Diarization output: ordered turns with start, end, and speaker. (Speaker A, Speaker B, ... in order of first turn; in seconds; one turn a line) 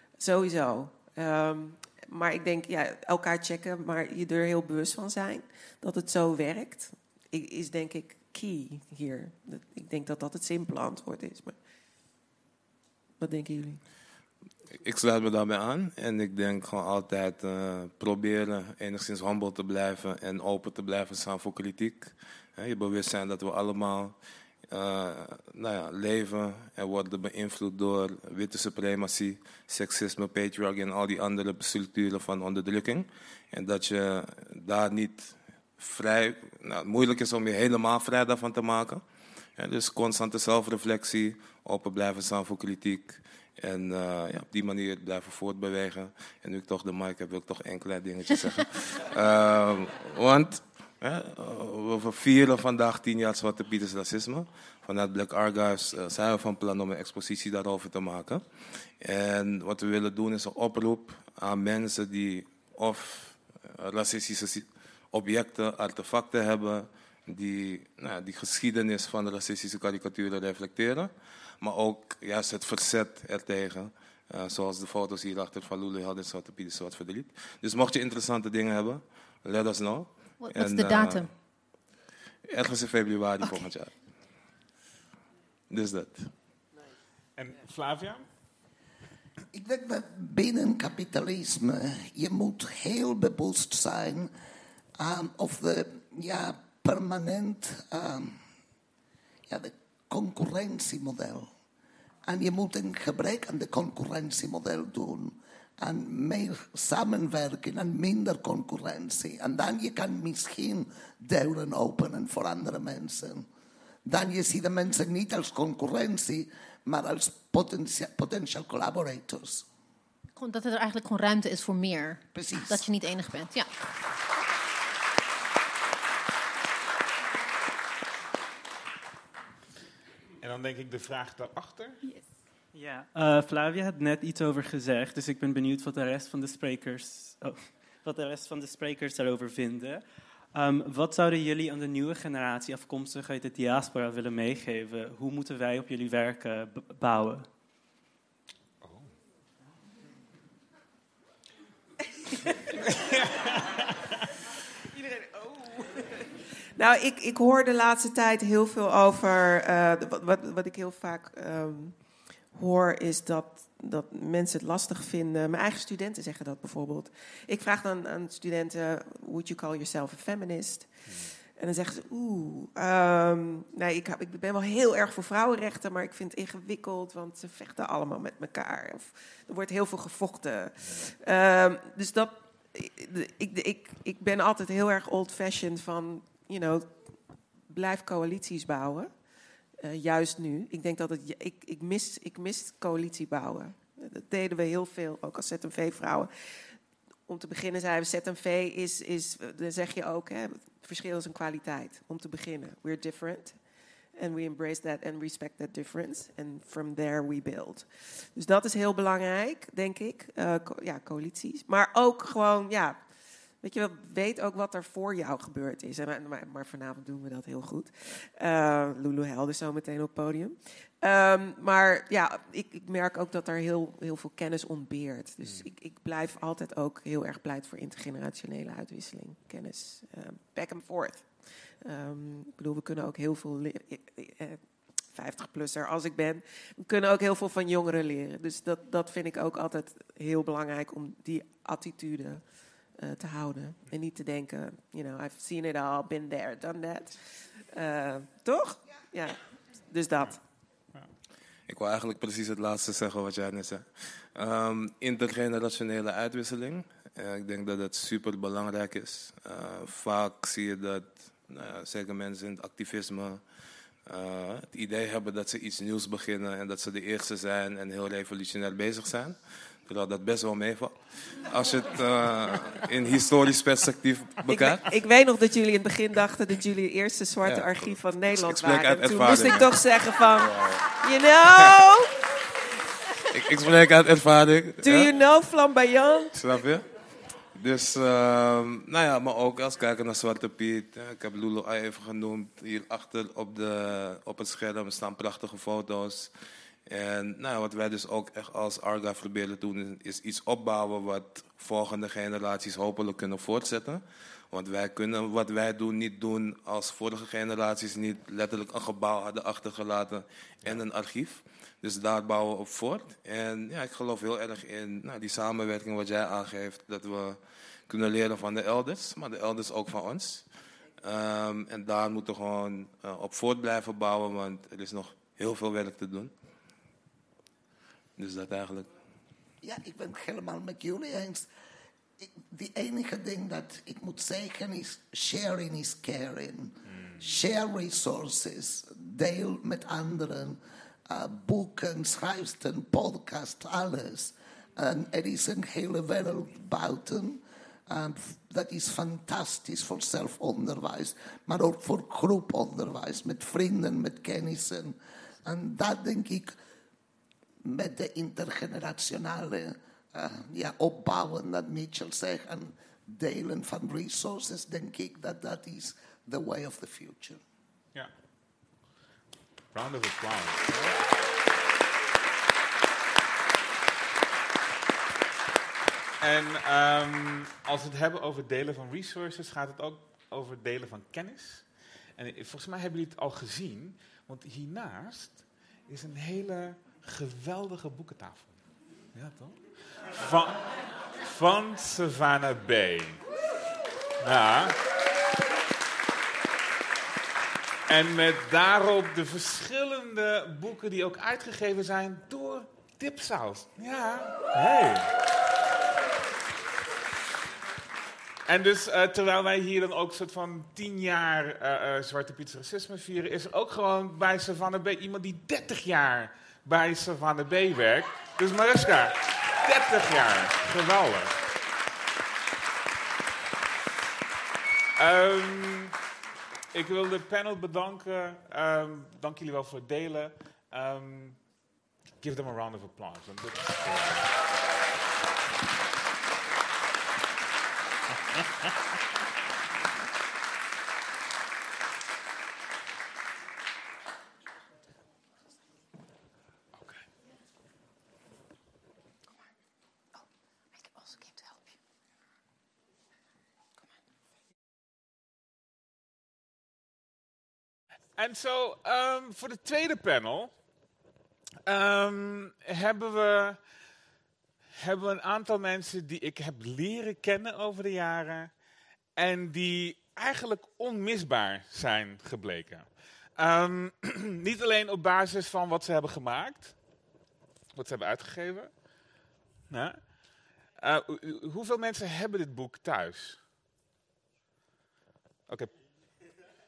Speaker A: 0.2-11.6
Speaker A: 13.2-13.8
Speaker B: 14.8-24.1
Speaker B: 24.7-39.0
Speaker B: 39.6-58.4
Speaker B: 59.0-81.3
Speaker C: 80.4-81.3
Speaker B: 82.5-83.9
Speaker B: 85.7-86.3
Speaker D: 87.4-88.2
Speaker E: 89.5-94.3
Speaker E: 95.0-98.4
Speaker E: 99.5-101.5
Speaker E: 102.2-113.5
Speaker E: 114.0-119.7
Speaker C: 120.3-123.7
Speaker E: 122.3-122.9
Speaker D: 130.4-132.0
Speaker F: 132.7-147.5
Speaker D: 148.8-149.1
Speaker D: 152.8-154.1
Speaker A: 154.9-189.2
Speaker D: 171.1-171.3
Speaker A: 189.8-196.7
Speaker A: 197.3-203.6
Speaker A: 204.2-213.0
Speaker A: 213.6-250.4
Speaker B: 251.7-263.4
Speaker B: 264.0-274.8
Speaker A: 274.4-282.1
Speaker B: 277.4-279.7
Speaker B: 283.3-285.1
Speaker A: 284.8-286.3
Speaker B: 286.3-286.9
Speaker B: 287.5-296.3
Speaker B: 296.9-320.5
Speaker B: 321.0-326.3
Speaker B: 328.2-328.9
Speaker E: 329.6-331.5
Speaker E: 332.2-356.5
Speaker E: 357.6-367.4
Speaker D: 369.7-371.0
Speaker D: 376.2-388.6
Speaker D: 389.1-393.2
Speaker D: 394.2-394.8
Speaker D: 397.9-405.1
Speaker D: 408.5-421.4
Speaker D: 425.0-426.0
Speaker D: 426.7-431.5
Speaker D: 432.2-434.3
Speaker C: 450.8-451.6
Speaker D: 458.1-460.5
Speaker D: 461.6-463.6
Speaker D: 464.8-468.5
Speaker D: 469.1-476.8
Speaker D: 477.7-478.9
Speaker D: 479.7-483.4
Speaker D: 485.5-485.8